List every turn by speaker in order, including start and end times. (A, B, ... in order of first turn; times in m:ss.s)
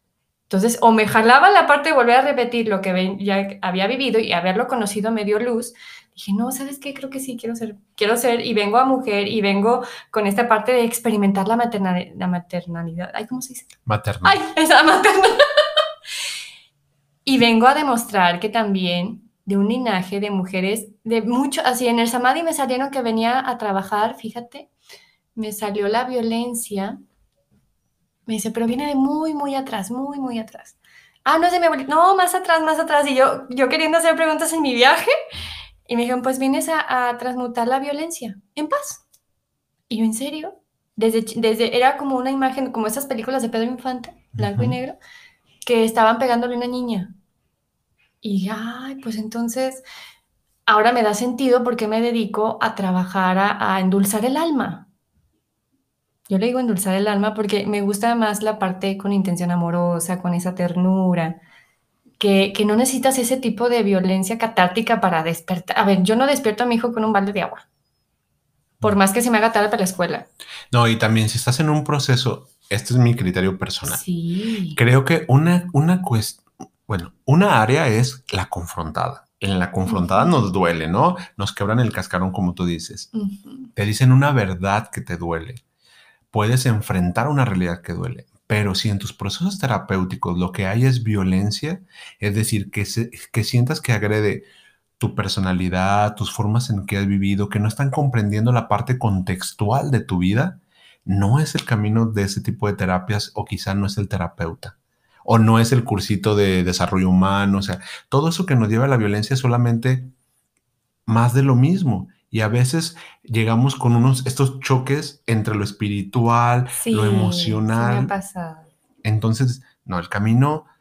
0:00.5-0:13.7 A
0:13.8-0:14.4 B
0:14.2-0:15.4 A
0:17.2-0:24.7 A
0:25.4-0:27.0 A
0:28.3-0:35.1 A
0:35.9-0:39.0 A
0:39.9-0:45.0 A
0:44.4-0:44.8 B
0:45.6-0:47.1 A
0:48.2-0:49.8 A
0:50.6-0:54.9 A
0:56.3-1:01.4 A
1:02.2-1:07.6 A
1:08.8-1:10.3 A
1:10.7-1:14.0 B
1:13.8-1:14.8 A
1:14.8-1:23.1 B
1:19.8-1:20.4 A
1:23.1-1:23.7 A
1:23.7-1:25.6 B
1:26.3-1:34.5 B
1:35.0-1:50.1 B
1:51.1-1:58.1 B
1:56.7-1:58.7 A
1:59.0-2:00.7 B